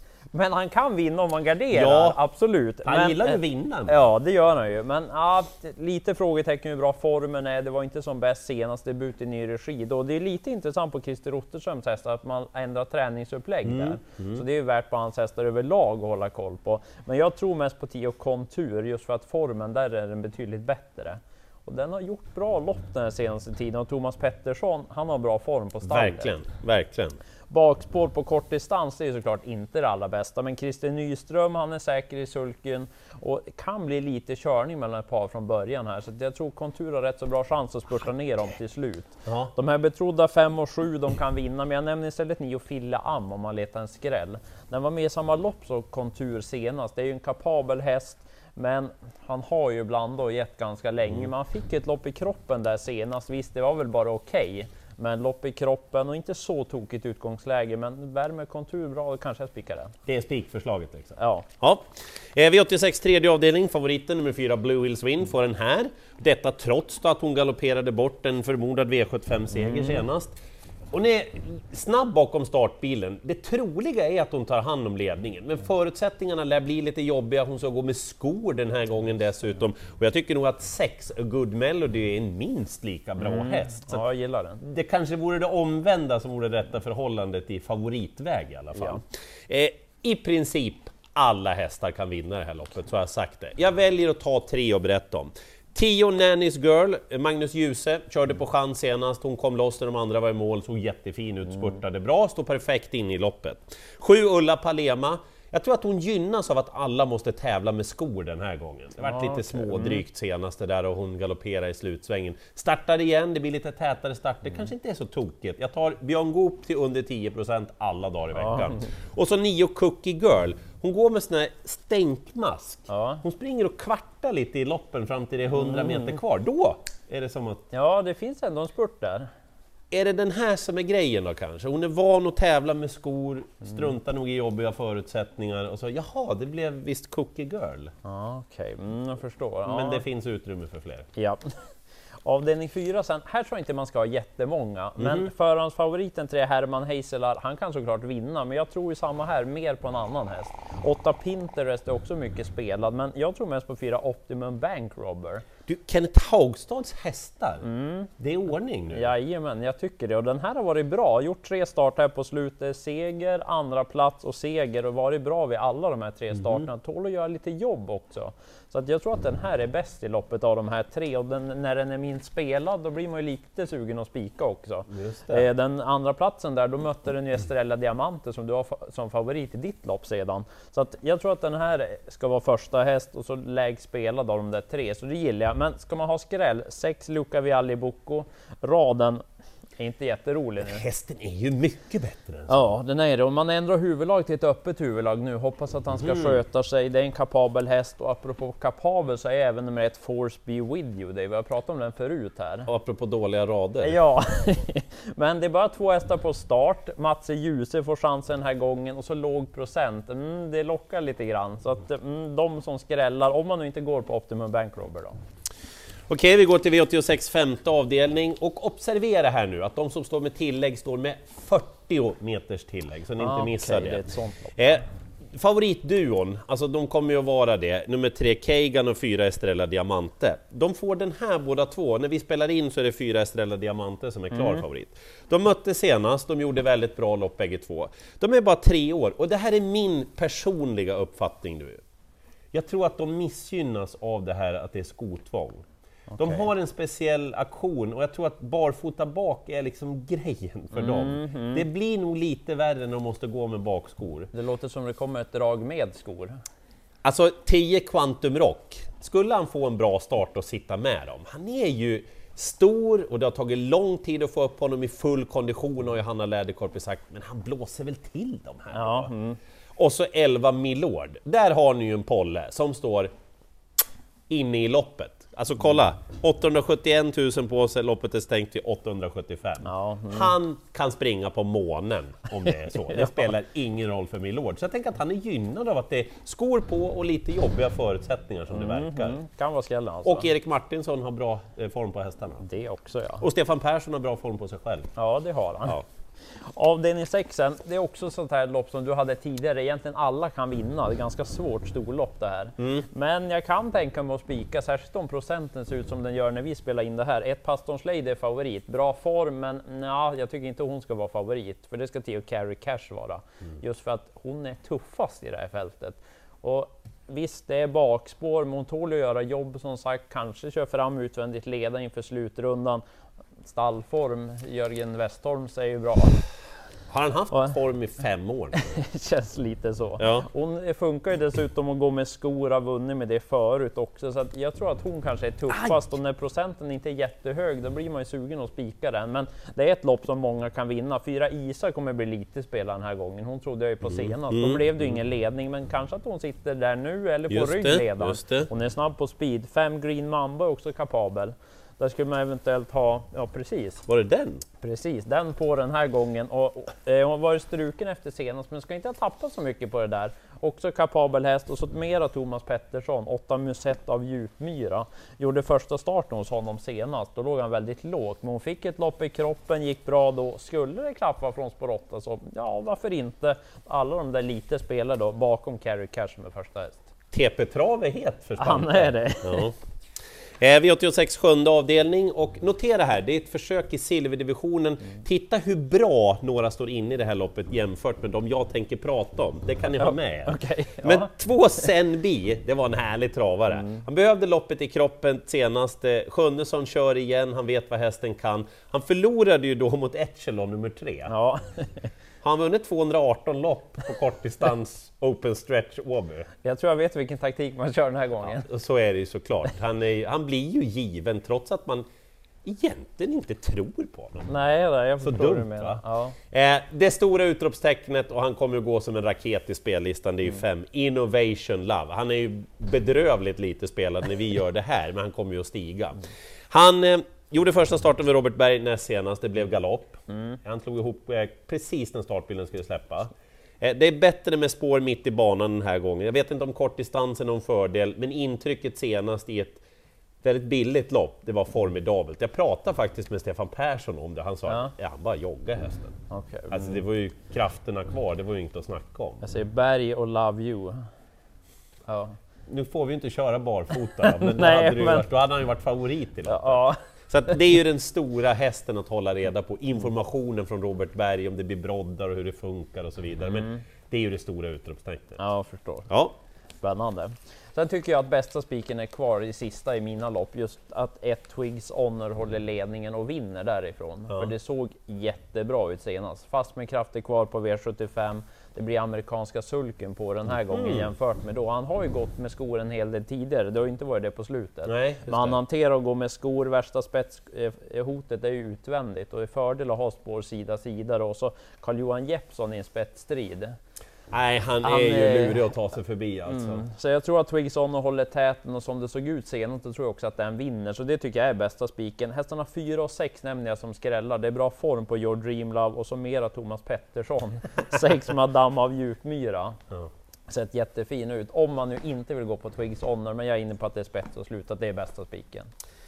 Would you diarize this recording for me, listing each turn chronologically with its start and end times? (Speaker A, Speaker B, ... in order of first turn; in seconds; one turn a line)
Speaker A: 0.3-26.3
Speaker B: 1.7-2.2
Speaker B: 2.8-4.0
Speaker B: 13.7-14.4
Speaker B: 25.8-27.2
Speaker A: 27.5-59.9
Speaker B: 39.3-39.5
Speaker B: 60.1-70.3
Speaker A: 61.2-61.5
Speaker A: 69.7-70.0
Speaker B: 70.9-84.1
Speaker A: 83.2-84.6
Speaker B: 84.6-127.7
Speaker A: 109.0-110.0
Speaker A: 118.3-118.8
Speaker A: 122.9-123.2
Speaker A: 125.5-126.2
Speaker A: 127.7-129.3
Speaker B: 129.9-137.9
Speaker A: 138.1-140.0
Speaker B: 139.7-141.1
Speaker A: 141.2-141.7
Speaker A: 142.2-155.5
Speaker B: 145.0-145.3
Speaker B: 155.7-157.7
Speaker A: 157.6-158.1
Speaker B: 158.2-159.1
Speaker A: 158.9-189.2
Speaker B: 174.9-175.5
Speaker A: 189.8-190.8
Speaker B: 190.6-192.7
Speaker A: 192.5-202.7
Speaker B: 195.9-196.4
Speaker B: 202.7-204.0
Speaker A: 203.8-215.2
Speaker B: 216.1-224.0
Speaker A: 223.2-224.8
Speaker B: 224.6-224.8
Speaker B: 225.3-241.8
Speaker A: 234.3-234.6
Speaker B: 242.5-245.7
Speaker A: 246.1-246.5
Speaker B: 246.2-254.3
Speaker A: 250.8-251.6
Speaker A: 254.3-256.4
Speaker B: 257.0-269.1
Speaker A: 268.7-269.4
Speaker B: 269.8-273.1
Speaker B: 274.3-289.2
Speaker A: 279.6-280.3
Speaker A: 282.5-283.3
Speaker A: 288.5-290.3
Speaker B: 290.0-292.4
Speaker A: 292.4-293.2
Speaker B: 293.2-294.9
Speaker A: 295.0-322.8
Speaker B: 302.6-302.9
Speaker A: 323.4-326.2
Speaker B: 326.9-328.6
Speaker A: 327.3-327.6
Speaker A: 328.5-353.9
Speaker B: 330.0-330.3
Speaker B: 335.5-335.8
Speaker B: 343.8-344.8
Speaker B: 347.3-348.5
Speaker B: 353.9-354.4
Speaker A: 354.6-376.9
Speaker B: 377.1-379.6
Speaker A: 378.4-379.5
Speaker B: 380.4-401.1
Speaker A: 389.8-391.1
Speaker A: 393.5-393.8
Speaker A: 401.1-401.9
Speaker B: 402.2-406.3
Speaker A: 406.4-408.5
Speaker B: 408.2-411.9
Speaker B: 412.4-414.3
Speaker A: 414.3-416.2
Speaker B: 415.0-439.6
Speaker B: 440.2-446.0
Speaker A: 444.5-444.7
Speaker A: 446.1-446.8
Speaker B: 446.5-449.2
Speaker A: 449.2-450.8
Speaker A: 451.9-452.2
Speaker B: 452.5-465.2
Speaker A: 454.0-455.1
Speaker A: 456.2-456.8
Speaker A: 463.2-463.6
Speaker A: 465.2-465.9
Speaker B: 465.9-466.1
Speaker A: 466.6-493.6
Speaker B: 480.5-480.9
Speaker B: 484.7-485.4
Speaker B: 494.1-496.6
Speaker A: 494.6-495.6
Speaker A: 496.3-509.6
Speaker A: 510.3-515.5